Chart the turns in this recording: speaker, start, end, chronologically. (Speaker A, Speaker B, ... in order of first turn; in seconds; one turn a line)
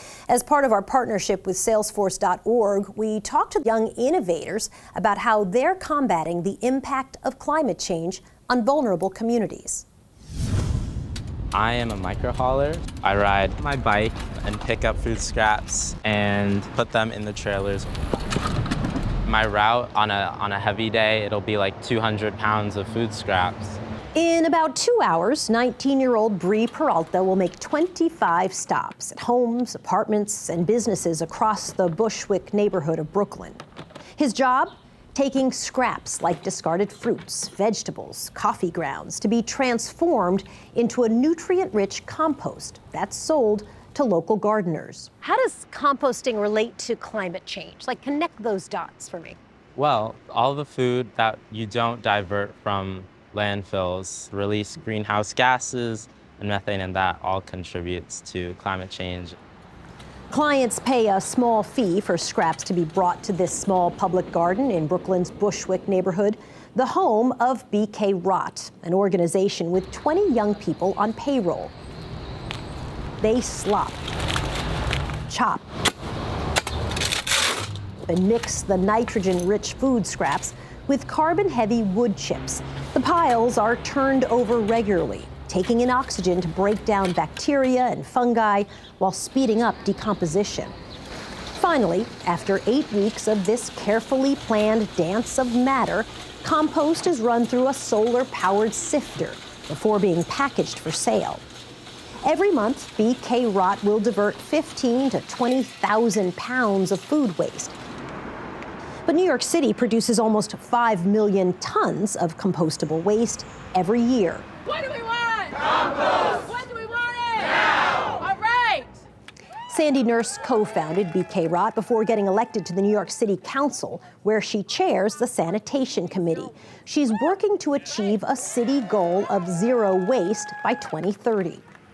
Speaker A: 0.3-9.8
Speaker B: 11.5-17.9
Speaker B: 19.3-23.8
Speaker A: 24.1-33.6
Speaker A: 34.2-49.4
Speaker B: 49.8-59.4
Speaker A: 60.3-71.7
Speaker A: 73.2-74.0
Speaker A: 75.3-75.7
Speaker A: 78.1-90.7
Speaker A: 91.5-101.5
Speaker A: 102.2-107.8
Speaker A: 109.1-114.5
Speaker C: 114.7-115.6
Speaker C: 116.5-119.0
Speaker A: 119.7-131.6